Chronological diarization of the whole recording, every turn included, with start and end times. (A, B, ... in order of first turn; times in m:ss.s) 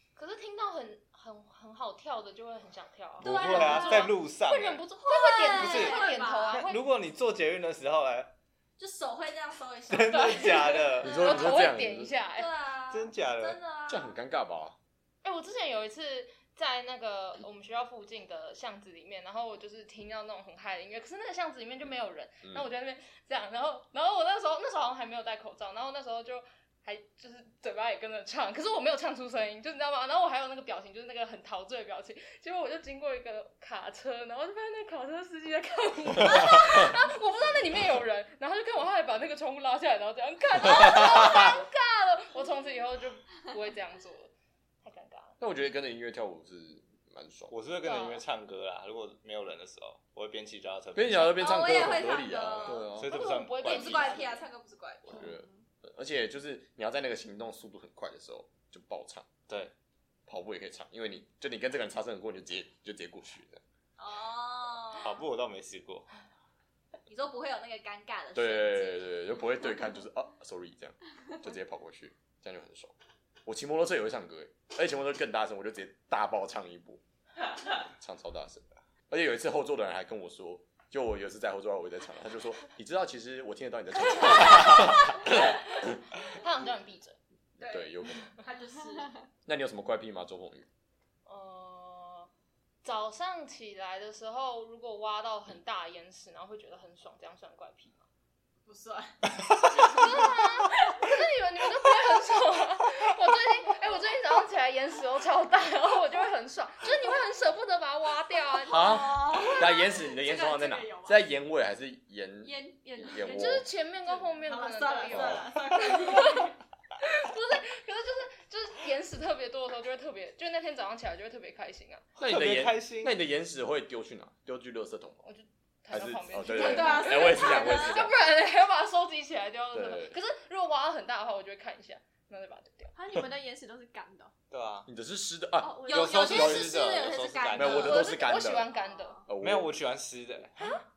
0:00.2-0:06.8 A
0:03.2-0:04.8 B
0:03.2-0:04.1 C
0:05.0-0:06.6 C
0:05.5-0:08.4 B
0:08.8-0:11.6 C
0:09.9-0:11.2 B
0:10.1-0:12.5 A
0:11.0-0:12.1 D
0:12.3-0:14.1 C
0:12.9-0:13.6 B
0:13.9-0:14.8 D
0:15.2-0:44.3 A
0:40.6-0:41.6 D
0:44.8-0:45.4 A
0:45.4-0:47.5 D
0:47.5-0:51.7 B
0:47.8-0:48.2 A
0:51.0-0:53.1 D
0:51.4-0:52.9 C
0:52.8-0:54.3 B
0:53.0-0:54.4 A
0:53.6-0:55.3 C
0:55.1-0:59.3 D
0:55.2-0:55.5 E
0:59.5-0:59.7 B
1:00.3-1:03.6 D
1:04.0-1:05.2 C
1:05.0-1:06.1 B
1:07.1-1:09.1 C
1:08.4-1:17.0 D
1:17.7-1:26.0 D
1:24.2-1:25.5 A
1:26.2-1:27.2 A
1:27.6-1:29.2 C
1:27.6-1:28.3 D
1:29.5-1:30.7 D
1:31.3-1:32.3 A
1:32.8-1:38.0 A
1:38.6-1:40.2 C
1:39.8-1:49.0 A
1:40.8-1:41.0 C
1:48.7-1:53.7 D
1:48.7-1:49.7 C
1:48.8-1:51.2 E
1:52.4-1:53.6 E
1:53.2-2:02.0 A
1:54.3-1:56.6 C
1:55.1-1:55.5 D
2:02.2-2:05.2 D
2:02.2-2:03.2 B
2:05.2-2:12.9 A
2:05.9-2:08.1 D
2:06.4-2:08.1 C
2:09.7-2:10.2 D
2:12.9-2:14.3 E
2:14.5-2:14.9 B
2:14.9-2:16.7 D
2:15.6-2:16.3 E
2:15.9-2:18.1 C
2:15.9-2:18.0 B
2:17.6-2:18.7 D
2:17.6-2:19.2 A
2:18.4-2:19.3 E
2:19.3-2:19.7 D
2:19.4-2:20.8 B
2:20.6-2:20.8 A